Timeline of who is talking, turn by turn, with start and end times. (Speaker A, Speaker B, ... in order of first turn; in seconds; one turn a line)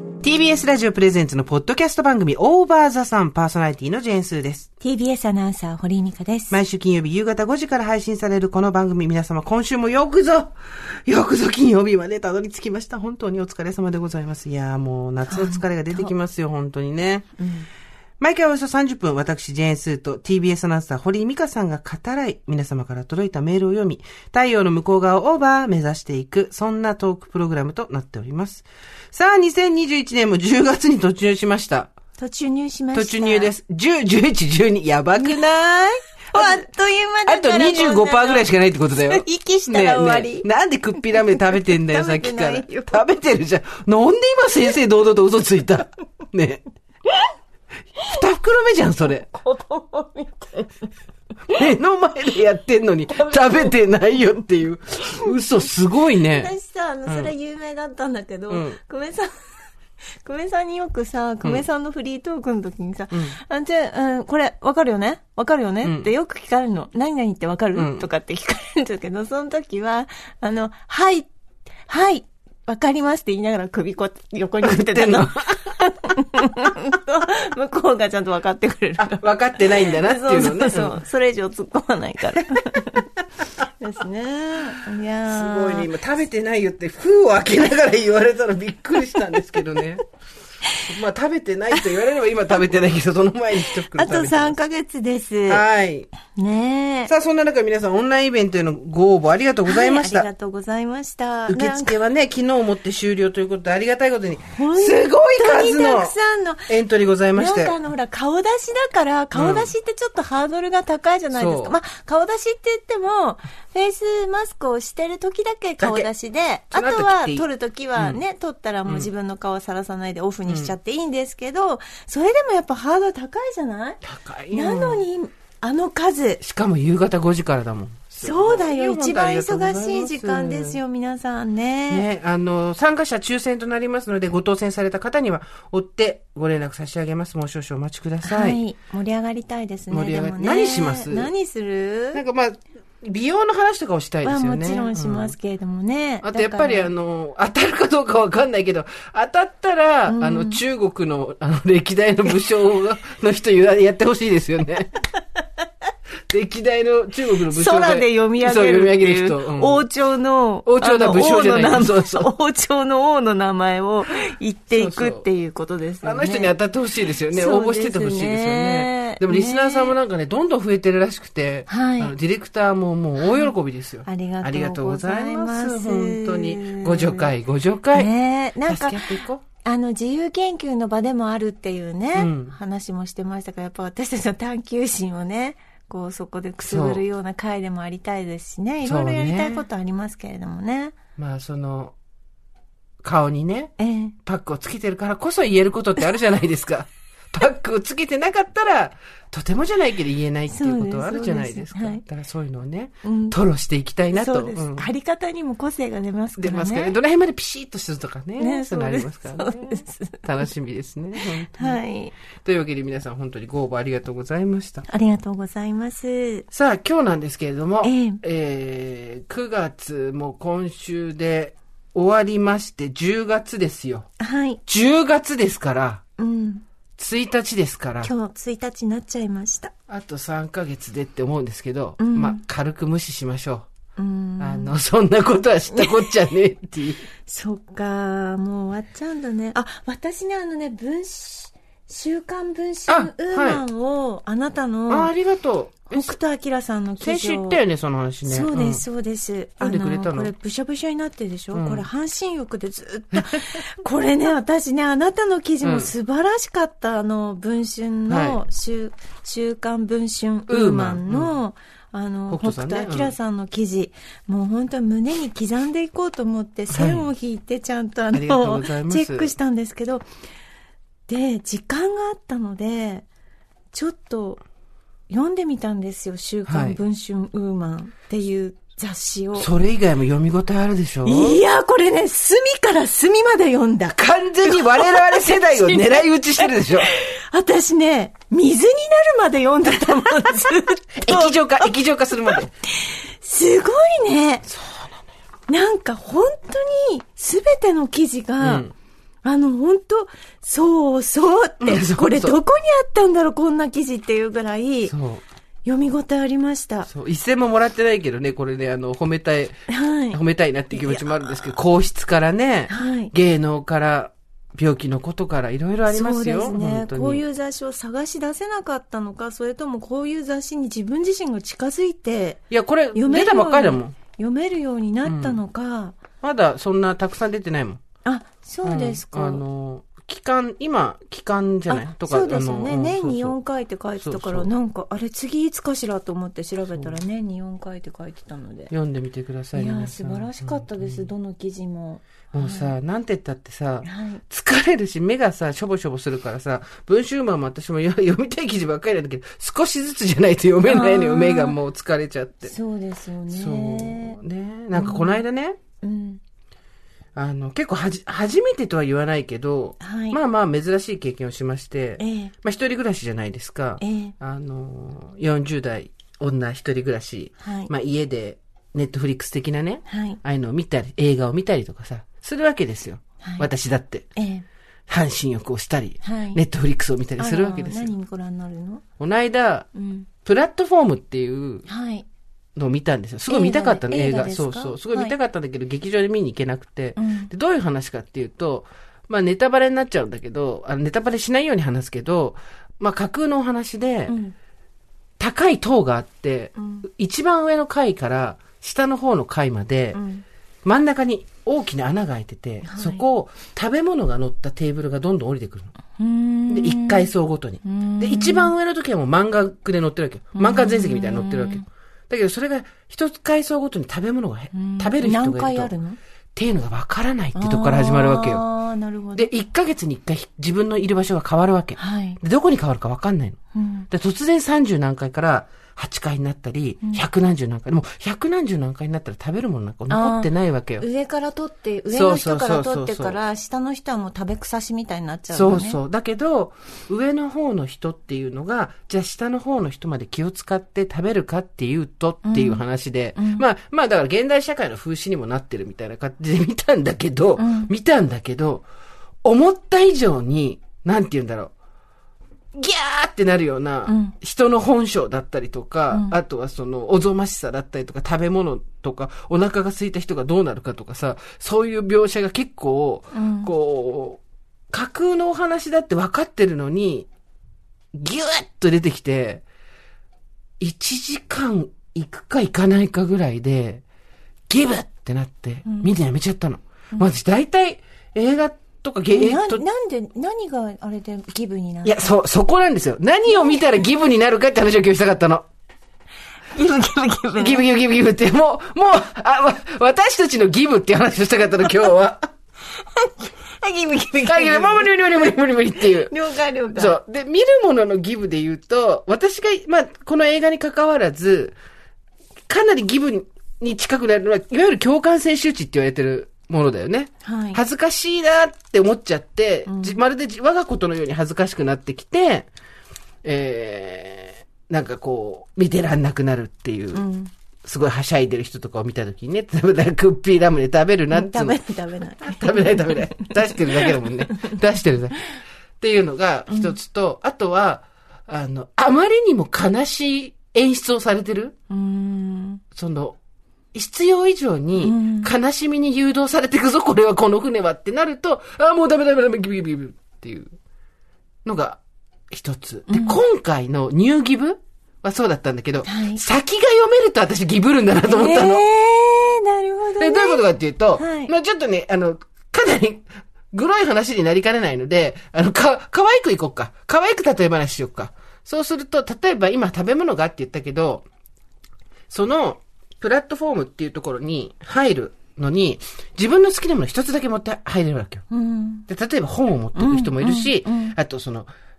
Speaker A: 0.2-4.7
Speaker B: 4.8-6.6
Speaker A: 6.5-10.5
Speaker A: 11.1-17.3
Speaker B: 15.3-16.1
Speaker B: 17.4-17.7
Speaker A: 18.2-31.9
Speaker B: 32.2-33.5
Speaker A: 32.9-36.6
Speaker B: 36.3-40.5
Speaker A: 37.2-46.6
Speaker B: 41.0-43.0
Speaker A: 48.0-49.3
Speaker B: 49.1-50.9
Speaker A: 51.5-56.5
Speaker B: 53.1-53.7
Speaker B: 56.3-59.3
Speaker A: 57.0-57.3
Speaker A: 58.5-58.8
Speaker B: 60.2-71.3
Speaker A: 65.8-66.1
Speaker A: 67.7-68.0
Speaker B: 71.9-83.1
Speaker A: 74.6-75.7
Speaker A: 79.0-81.0
Speaker B: 83.8-85.9
Speaker A: 85.3-90.0
Speaker B: 89.1-89.6
Speaker A: 90.9-94.5
Speaker B: 93.6-95.6
Speaker A: 95.5-96.1
Speaker B: 96.3-97.1
Speaker A: 97.1-100.3
Speaker B: 99.7-101.9
Speaker A: 101.5-106.1
Speaker B: 104.5-106.7
Speaker A: 106.7-107.7
Speaker B: 107.3-124.0
Speaker A: 109.3-109.7
Speaker A: 111.3-111.7
Speaker A: 115.8-116.1
Speaker A: 116.7-118.2
Speaker A: 120.5-120.7
Speaker A: 124.0-125.0
Speaker B: 124.5-126.4
Speaker A: 126.4-130.8
Speaker B: 128.2-132.1
Speaker A: 131.9-138.6
Speaker B: 138.2-142.2
Speaker A: 139.9-141.3
Speaker A: 142.1-145.3
Speaker B: 144.2-146.9
Speaker A: 146.2-154.9
Speaker B: 150.1-150.6
Speaker A: 156.3-159.8
Speaker B: 157.5-166.5
Speaker A: 160.7-162.3
Speaker A: 164.7-165.2
Speaker A: 166.0-178.1
Speaker B: 167.3-169.9
Speaker B: 171.7-172.1
Speaker B: 173.2-173.5
Speaker B: 174.0-177.3
Speaker B: 177.9-190.9
Speaker A: 178.7-179.4
Speaker A: 182.2-182.5
Speaker A: 186.6-187.0
Speaker A: 188.8-189.6
Speaker A: 191.2-191.9
Speaker A: 193.0-193.7
Speaker B: 193.8-194.1
Speaker A: 194.2-204.9
Speaker B: 200.5-202.0
Speaker B: 203.0-203.3
Speaker B: 204.1-206.9
Speaker A: 206.4-211.8
Speaker B: 208.4-210.4
Speaker B: 211.1-212.1
Speaker A: 212.4-214.9
Speaker B: 214.9-216.4
Speaker A: 216.5-224.1
Speaker B: 217.8-218.2
Speaker B: 224.2-224.6
Speaker A: 224.7-226.0
Speaker B: 226.2-226.6
Speaker A: 227.0-228.1
Speaker B: 228.0-229.7
Speaker A: 229.9-233.7
Speaker B: 232.0-232.4
Speaker B: 234.0-234.7
Speaker A: 234.4-237.0
Speaker B: 235.7-236.2
Speaker B: 237.2-245.1
Speaker A: 242.9-243.6
Speaker A: 244.9-246.2
Speaker B: 245.9-247.6
Speaker A: 247.0-248.8
Speaker B: 248.2-270.0
Speaker A: 249.6-250.3
Speaker A: 251.5-251.8
Speaker A: 253.1-253.6
Speaker A: 255.6-255.9
Speaker A: 258.1-258.4
Speaker A: 260.5-261.4
Speaker A: 262.3-263.1
Speaker A: 266.7-267.1
Speaker A: 268.1-269.3
Speaker B: 271.1-273.1
Speaker B: 273.7-274.4
Speaker B: 275.1-279.5
Speaker A: 276.5-276.8
Speaker A: 279.4-281.4
Speaker B: 281.0-291.7
Speaker A: 283.9-286.9
Speaker A: 291.0-292.5
Speaker B: 292.3-294.5
Speaker A: 294.5-295.0
Speaker B: 295.5-298.7
Speaker A: 298.4-298.7
Speaker B: 299.2-304.9
Speaker A: 301.6-302.4
Speaker A: 304.9-305.2
Speaker B: 305.6-306.9
Speaker A: 306.9-309.6
Speaker B: 309.7-310.2
Speaker A: 310.1-317.2
Speaker B: 310.7-311.5
Speaker B: 312.7-313.1
Speaker B: 315.9-322.4
Speaker A: 322.5-323.9
Speaker B: 322.9-326.0
Speaker A: 325.0-325.4
Speaker A: 326.2-327.8
Speaker B: 328.0-329.4
Speaker A: 328.6-333.3
Speaker B: 331.7-338.7
Speaker A: 334.0-334.5
Speaker A: 336.7-337.0
Speaker A: 338.7-341.1
Speaker B: 339.5-342.7
Speaker A: 342.3-352.5
Speaker B: 343.8-344.2
Speaker B: 350.6-351.6
Speaker B: 352.5-354.2
Speaker A: 353.3-355.6
Speaker B: 354.7-355.2
Speaker B: 355.8-356.2
Speaker A: 357.1-374.1
Speaker B: 359.8-360.2
Speaker B: 362.0-362.3
Speaker B: 363.8-364.1
Speaker B: 367.4-367.7
Speaker B: 369.9-370.2
Speaker B: 373.2-373.5
Speaker B: 374.1-374.4
Speaker A: 374.9-377.9
Speaker B: 376.0-376.4
Speaker B: 377.2-378.8
Speaker A: 379.0-379.7
Speaker B: 379.7-380.1
Speaker A: 380.2-381.6
Speaker B: 381.7-382.1
Speaker A: 382.6-394.1
Speaker B: 383.3-385.1
Speaker B: 386.9-387.3
Speaker B: 394.1-394.3
Speaker A: 395.2-400.0
Speaker B: 396.6-396.9
Speaker B: 399.9-400.2
Speaker A: 400.6-405.7
Speaker B: 402.6-403.0
Speaker B: 406.0-407.1
Speaker A: 406.5-415.7
Speaker B: 407.6-408.5
Speaker B: 410.4-411.6
Speaker B: 414.5-416.0
Speaker A: 416.4-418.4
Speaker B: 417.3-419.3
Speaker A: 419.1-423.4
Speaker B: 421.8-422.2
Speaker B: 423.5-423.9
Speaker A: 423.9-430.8
Speaker B: 429.9-435.8
Speaker A: 431.9-433.2
Speaker A: 435.3-448.6
Speaker B: 442.2-442.6
Speaker B: 443.1-443.5
Speaker B: 447.4-447.7
Speaker A: 449.2-451.5
Speaker A: 452.5-467.1
Speaker B: 453.9-454.1
Speaker B: 455.9-456.1
Speaker B: 463.1-463.5
Speaker A: 467.9-469.4
Speaker A: 470.6-473.8
Speaker A: 474.5-479.6
Speaker B: 475.6-475.9
Speaker B: 479.1-482.1
Speaker A: 481.8-485.4
Speaker B: 483.3-483.6
Speaker B: 486.5-487.6
Speaker A: 487.4-492.3
Speaker B: 492.8-494.9
Speaker A: 494.2-496.1
Speaker B: 496.0-497.0
Speaker A: 496.7-501.5
Speaker A: 502.5-512.5
Speaker B: 507.2-507.6
Speaker B: 509.6-510.0
Speaker A: 513.2-517.0
Speaker B: 516.9-517.3
Speaker A: 517.6-521.6
Speaker B: 521.1-524.5
Speaker A: 522.2-525.2
Speaker A: 525.8-531.5
Speaker B: 526.5-526.8
Speaker B: 531.7-532.6
Speaker A: 532.7-533.2
Speaker A: 533.7-540.5
Speaker B: 534.8-535.3
Speaker A: 541.4-541.8
Speaker A: 542.3-548.6
Speaker B: 542.9-543.2
Speaker B: 545.8-546.2
Speaker B: 548.0-550.4
Speaker A: 550.0-561.0
Speaker B: 551.0-551.3
Speaker A: 562.1-568.2
Speaker B: 568.3-568.9
Speaker A: 568.9-571.5
Speaker B: 569.7-571.0